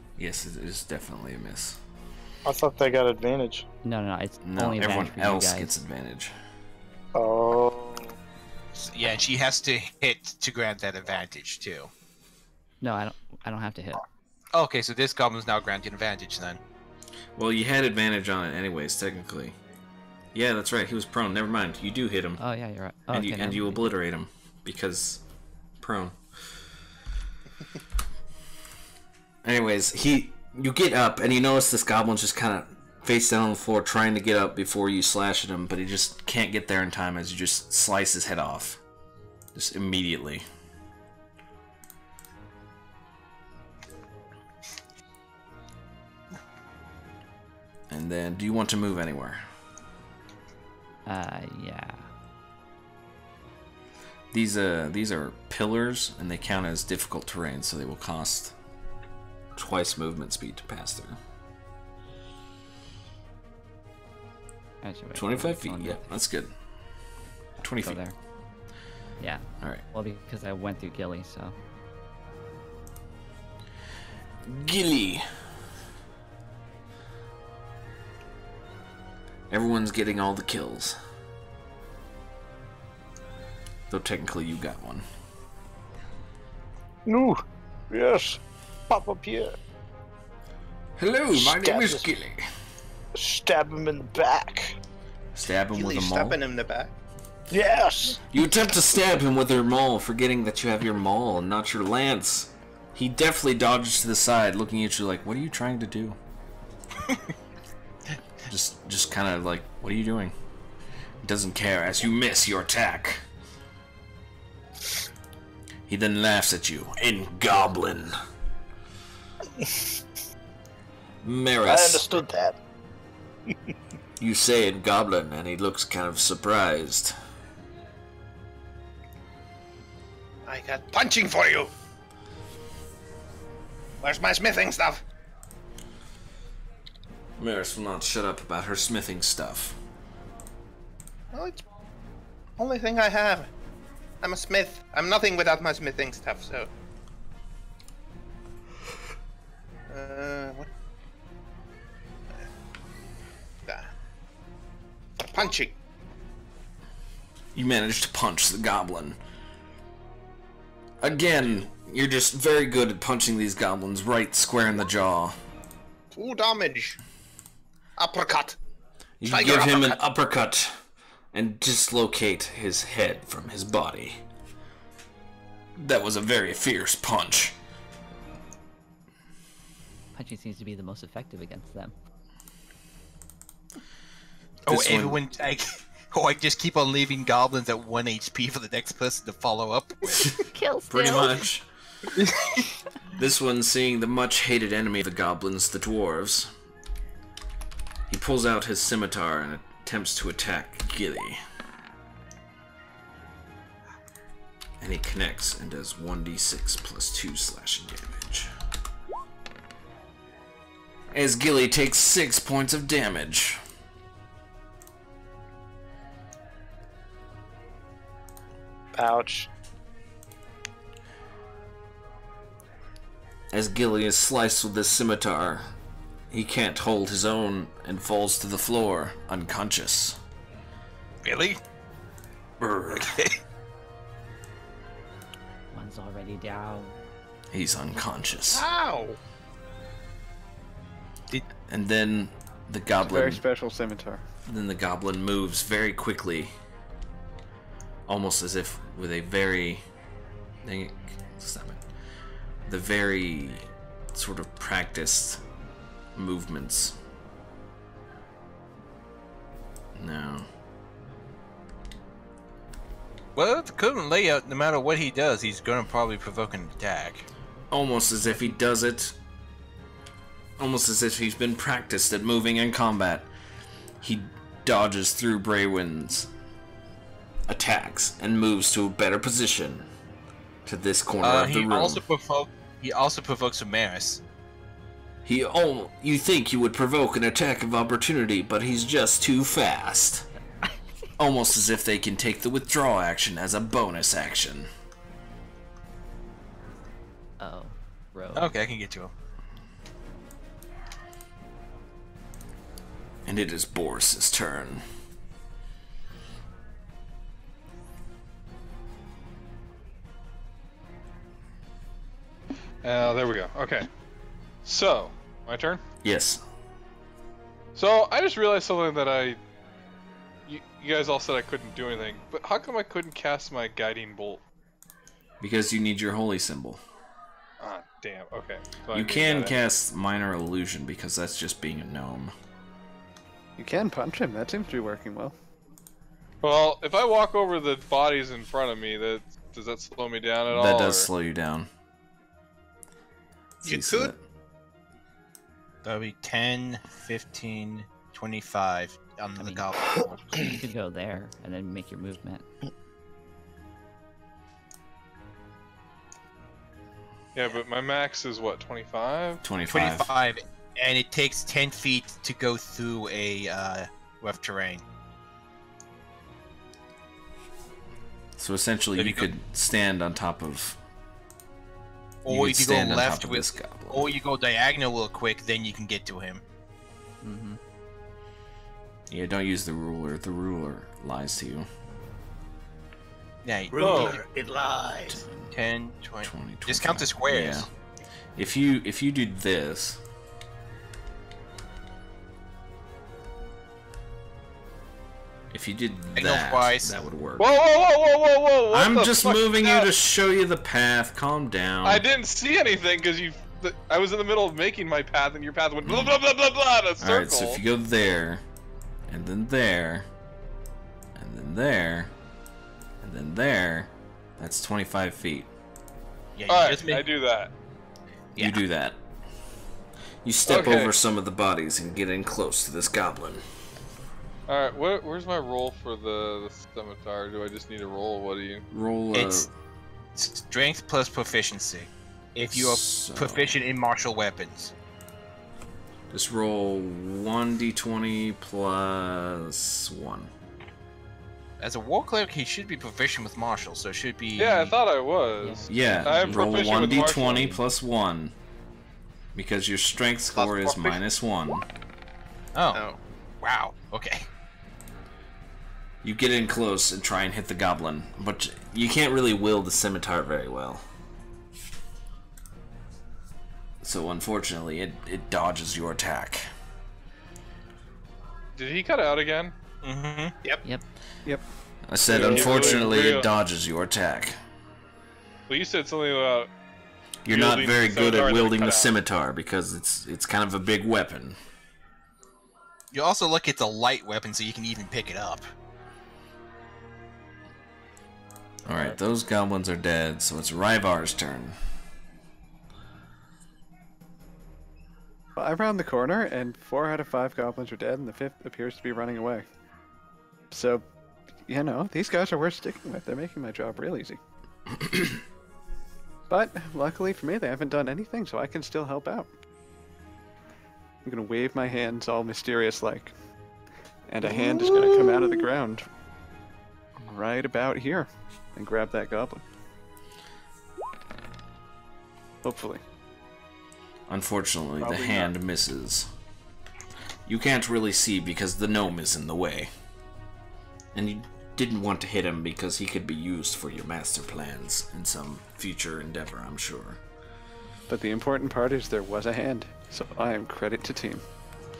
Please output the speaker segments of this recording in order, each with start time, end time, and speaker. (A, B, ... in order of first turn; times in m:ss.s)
0:00.2-0:01.8 A
0:02.4-0:03.6 B
0:03.8-0:05.7 C
0:04.4-0:06.3 A
0:07.1-0:08.2 B
0:08.7-0:11.9 D
0:12.8-0:14.0 C
0:14.5-0:16.6 D
0:17.4-0:19.6 A
0:20.3-0:22.4 A
0:22.4-0:23.9 C
0:23.1-0:25.2 A
0:25.8-0:26.2 A
0:29.4-0:38.8 A
0:39.5-0:40.4 A
0:47.9-0:49.4 A
0:51.0-0:52.1 C
0:54.3-0:58.5 A
0:59.6-1:01.2 A
1:04.8-1:06.0 C
1:05.1-1:06.5 A
1:07.6-1:08.0 A
1:07.7-1:08.1 C
1:09.2-1:11.5 C
1:14.4-1:15.2 A
1:19.5-1:20.9 A
1:23.9-1:25.0 A
1:27.1-1:29.6 B
1:31.0-1:32.4 A
1:31.3-1:32.1 B
1:33.1-1:34.7 B
1:35.3-1:36.4 A
1:35.7-1:36.9 E
1:37.5-1:38.2 B
1:38.3-1:46.2 A
1:48.5-1:50.3 A
1:51.2-1:53.2 A
1:55.9-1:58.2 A
2:01.2-2:02.2 A
2:01.7-2:02.6 B
2:04.2-2:07.1 A
2:10.4-2:11.7 E
2:14.0-2:15.0 E
2:17.4-2:19.8 A
2:21.3-2:21.6 E
2:22.6-2:23.5 E
2:24.2-2:26.7 E
2:29.9-2:30.7 E
2:33.6-2:33.9 E
2:35.2-2:35.8 E
2:37.5-2:39.2 A
2:41.0-2:45.4 A
2:46.1-2:47.0 E
2:48.0-2:48.6 E
2:49.2-2:50.8 A
2:49.3-2:50.0 E
2:51.3-2:54.2 A
2:55.8-2:57.6 A
3:00.1-3:01.9 C
3:04.6-3:10.4 D
3:04.7-3:05.2 A
3:10.3-3:11.5 C
3:10.9-3:11.7 A
3:12.2-3:12.6 D
3:13.2-3:16.5 A
3:18.1-3:21.4 A
3:24.8-3:28.5 A
3:31.1-3:33.6 A
3:38.9-3:39.5 B
3:43.5-3:45.7 A
3:46.3-3:50.2 A
3:51.2-3:51.6 D
3:52.6-3:53.2 A
3:53.0-3:53.3 D
3:55.7-3:57.0 C
3:57.5-3:58.6 A
3:58.5-3:59.2 E
4:01.7-4:03.4 A
4:03.0-4:04.2 F
4:04.5-4:06.5 A
4:08.1-4:09.8 A
4:10.6-4:11.8 A
4:12.7-4:15.4 A
4:16.1-4:16.9 A
4:20.0-4:20.5 A
4:23.4-4:27.3 D
4:27.7-4:29.2 A
4:30.6-4:33.3 A
4:34.0-4:36.3 A
4:37.5-4:39.9 A
4:40.6-4:42.0 A
4:41.2-4:44.2 D
4:45.2-4:50.3 A
4:51.2-4:54.7 A
4:57.4-4:58.6 C
4:58.3-4:59.1 D
5:03.2-5:04.8 A
5:12.8-5:13.9 G
5:14.6-5:15.8 G
5:16.0-5:16.4 A
5:17.7-5:19.4 G
5:20.5-5:24.4 G
5:25.4-5:26.8 A
5:27.6-5:29.5 G
5:28.9-5:32.3 A
5:33.6-5:35.3 F
5:36.4-5:41.1 G
5:40.5-5:41.7 A
5:43.6-5:44.1 E
5:43.6-5:44.2 A
5:45.8-5:50.6 D
5:49.4-5:49.7 C
5:50.4-5:52.4 C
5:57.3-5:59.4 G
5:59.4-6:00.1 A
5:59.7-6:04.8 D
6:08.4-6:10.8 A
6:09.0-6:09.3 D
6:12.2-6:16.4 D
6:12.3-6:14.1 A
6:17.2-6:17.6 C
6:19.1-6:21.7 A
6:23.4-6:24.2 D
6:23.7-6:25.2 E
6:23.8-6:24.2 G
6:25.1-6:25.5 A
6:25.5-6:27.7 D
6:26.2-6:27.7 A
6:28.4-6:30.0 A
6:35.5-6:37.5 A
6:36.2-6:36.9 D
6:37.4-6:39.9 G
6:38.7-6:42.0 A
6:41.8-6:47.6 G
6:45.8-6:46.2 A
6:47.0-6:48.4 A
6:49.1-6:50.1 A
6:51.2-6:52.1 A
6:53.0-6:55.5 A
6:56.4-6:57.1 D
6:56.5-6:57.5 G
6:58.4-6:59.0 A
7:00.2-7:03.4 A
7:00.5-7:00.9 G
7:04.5-7:08.6 G
7:08.7-7:09.5 A
7:09.1-7:09.5 D
7:10.2-7:14.7 D
7:12.5-7:13.6 A
7:16.1-7:20.3 A
7:21.6-7:24.8 D
7:24.4-7:27.5 G
7:25.4-7:26.5 C
7:25.7-7:28.3 A
7:27.2-7:27.6 C
7:29.3-7:31.6 A
7:30.3-7:31.0 E
7:32.5-7:32.8 D
7:32.7-7:33.0 E
7:33.4-7:34.3 D
7:36.0-7:40.8 A
7:43.8-7:46.4 A
7:48.5-7:49.5 G
7:49.8-7:50.4 D
7:51.9-7:54.4 A
7:52.1-7:53.3 G
7:55.5-7:56.5 G
7:57.2-8:01.4 A
7:57.3-7:58.9 G
8:02.9-8:05.4 D
8:08.6-8:11.6 A
8:15.4-8:19.5 F
8:20.5-8:20.8 F
8:21.4-8:24.2 F
8:26.3-8:29.3 F
8:31.0-8:33.2 F
8:34.1-8:35.9 F
8:34.2-8:35.4 E
8:37.0-8:39.4 F
8:42.4-8:42.8 F
8:44.1-8:46.1 A
8:44.8-8:45.2 F
8:47.2-8:49.7 A
8:50.9-8:57.0 A
8:57.9-9:01.2 F